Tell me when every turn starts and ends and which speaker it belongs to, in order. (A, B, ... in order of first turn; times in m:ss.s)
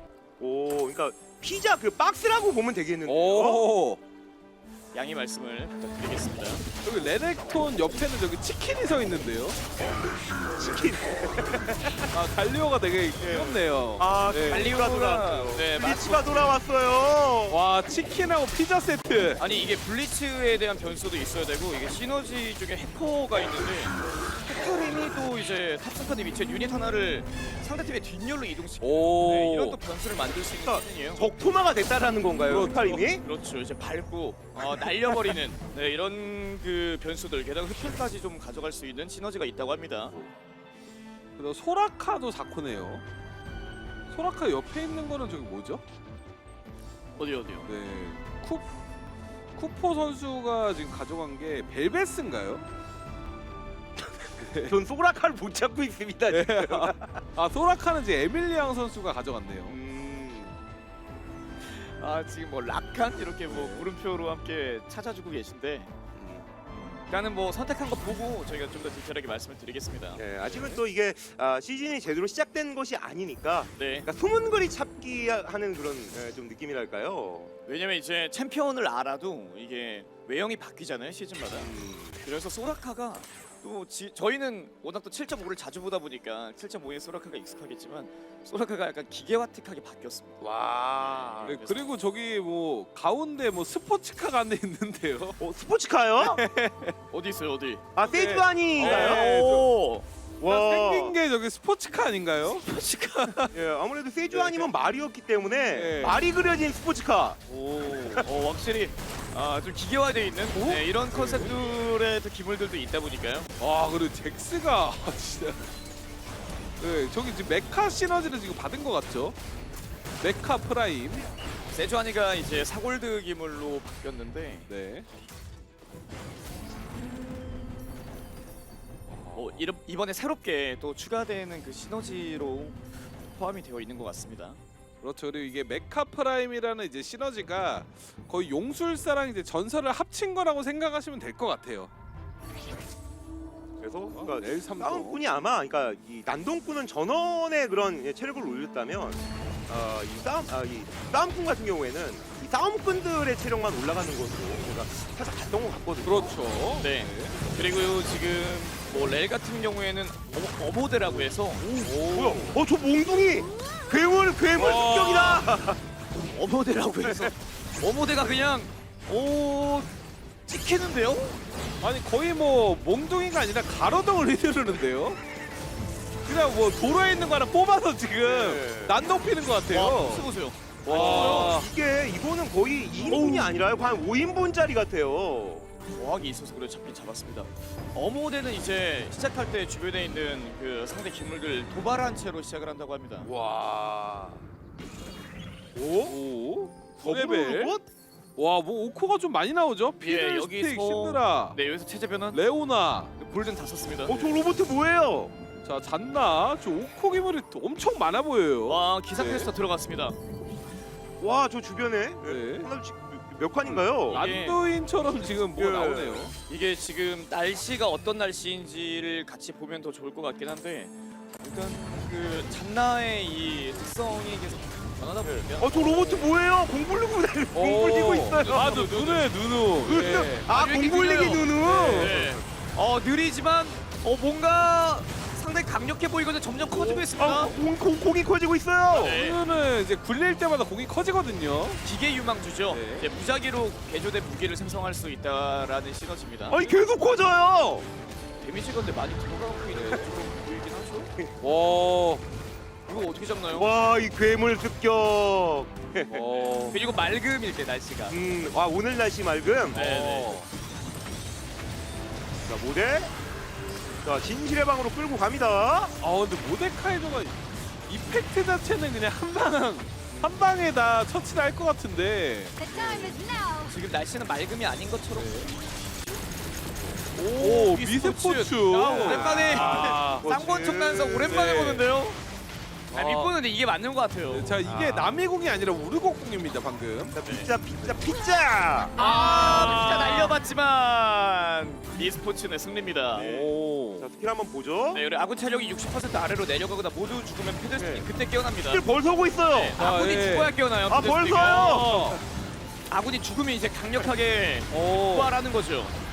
0:00.4-0:03.6 A
0:03.0-0:04.0 B
0:04.9-0:06.6 C
0:06.8-0:09.6 B
0:10.6-0:12.1 A
0:12.1-0:14.8 B
0:13.2-0:17.6 A
0:14.4-0:16.6 C
0:17.5-0:19.4 B
0:19.4-0:31.3 C
0:28.8-0:29.8 B
0:30.5-0:33.2 A
0:32.4-0:33.1 B
0:33.2-0:40.1 C
0:41.4-0:43.0 B
0:44.1-0:45.8 B
0:47.1-0:47.7 C
0:47.6-0:48.6 B
0:49.5-0:52.6 B
0:54.2-0:54.8 B
0:54.6-0:57.2 A
0:56.3-0:59.8 B
0:59.7-1:00.5 C
0:59.9-1:00.5 A
1:01.6-1:05.9 C
1:03.5-1:03.9 B
1:06.2-1:06.5 A
1:06.7-1:10.2 C
1:10.2-1:17.5 A
1:10.4-1:10.8 B
1:13.7-1:14.1 C
1:17.6-1:30.4 C
1:21.5-1:22.2 A
1:30.4-1:31.6 A
1:31.0-1:31.9 C
1:31.4-1:35.4 B
1:35.4-1:36.4 A
1:36.2-1:37.8 C
1:38.0-1:39.2 A
1:38.0-1:39.7 B
1:38.8-1:40.0 C
1:40.4-1:41.2 A
1:40.4-1:43.5 B
1:43.5-1:47.4 A
1:44.3-1:44.7 B
1:45.7-1:46.2 B
1:47.5-1:48.3 B
1:48.2-1:53.5 C
1:50.5-1:51.5 B
1:53.6-1:55.7 B
1:56.8-1:59.4 B
2:00.2-2:01.3 B
2:01.7-2:04.7 C
2:04.7-2:05.0 B
2:09.1-2:09.7 B
2:09.3-2:14.6 C
2:15.0-2:21.9 B
2:23.8-2:36.3 A
2:24.1-2:25.2 B
2:36.0-2:37.4 B
2:36.8-2:41.7 C
2:41.2-2:42.6 B
2:41.7-2:45.8 A
2:44.5-2:45.5 B
2:46.3-2:49.9 C
2:47.0-2:47.3 A
2:50.5-2:51.4 C
2:51.8-2:55.2 B
2:56.2-3:00.3 B
2:58.2-2:59.0 A
2:59.7-3:01.6 C
3:00.8-3:01.7 B
3:00.9-3:05.6 A
3:03.1-3:03.5 B
3:05.9-3:13.3 C
3:13.2-3:14.4 A
3:15.7-3:16.2 A
3:16.1-3:17.8 B
3:17.0-3:17.8 A
3:18.4-3:21.6 B
3:20.0-3:22.4 C
3:22.3-3:23.1 B
3:23.2-3:24.4 C
3:24.0-3:25.3 A
3:25.6-3:29.5 B
3:28.6-3:30.2 C
3:31.2-3:34.2 A
3:32.2-3:32.7 B
3:34.1-3:34.6 C
3:34.1-3:36.3 B
3:35.5-3:36.3 A
3:36.5-3:46.3 C
3:45.2-3:49.0 A
3:47.5-3:50.5 B
3:48.4-3:49.3 C
3:49.8-3:52.4 A
3:50.4-3:57.6 C
3:51.7-3:52.1 B
3:56.6-3:59.2 A
3:58.9-3:59.4 C
3:59.0-4:01.8 B
4:01.8-4:06.8 C
4:02.7-4:03.1 B
4:06.5-4:07.8 A
4:08.4-4:11.1 C
4:09.7-4:10.1 B
4:11.4-4:12.2 B
4:12.9-4:13.7 C
4:13.5-4:16.2 A
4:16.1-4:16.8 B
4:16.3-4:18.2 C
4:18.1-4:19.8 A
4:19.7-4:20.4 C
4:19.7-4:20.5 B
4:22.4-4:23.1 A
4:24.0-4:26.0 A
4:26.0-4:33.2 B
4:30.1-4:30.4 A
4:32.7-4:35.6 C
4:35.1-4:35.5 B
4:37.1-4:42.2 C
4:37.4-4:40.3 B
4:38.8-4:41.4 A
4:41.2-4:41.8 B
4:42.9-4:43.3 B
4:42.9-4:44.6 C
4:44.3-4:47.2 B
4:44.6-4:45.2 A
4:47.1-4:49.0 A
4:47.2-4:47.5 C
4:49.0-4:53.4 C
4:49.0-4:50.3 B
4:53.1-4:55.0 A
4:53.2-4:54.1 B
4:54.9-4:58.8 C
4:57.8-4:58.0 B
4:58.6-4:59.8 A
4:59.5-5:02.0 C
4:59.8-5:00.6 B
5:00.9-5:02.2 A
5:01.4-5:02.2 B
5:02.9-5:05.9 C
5:04.7-5:05.4 B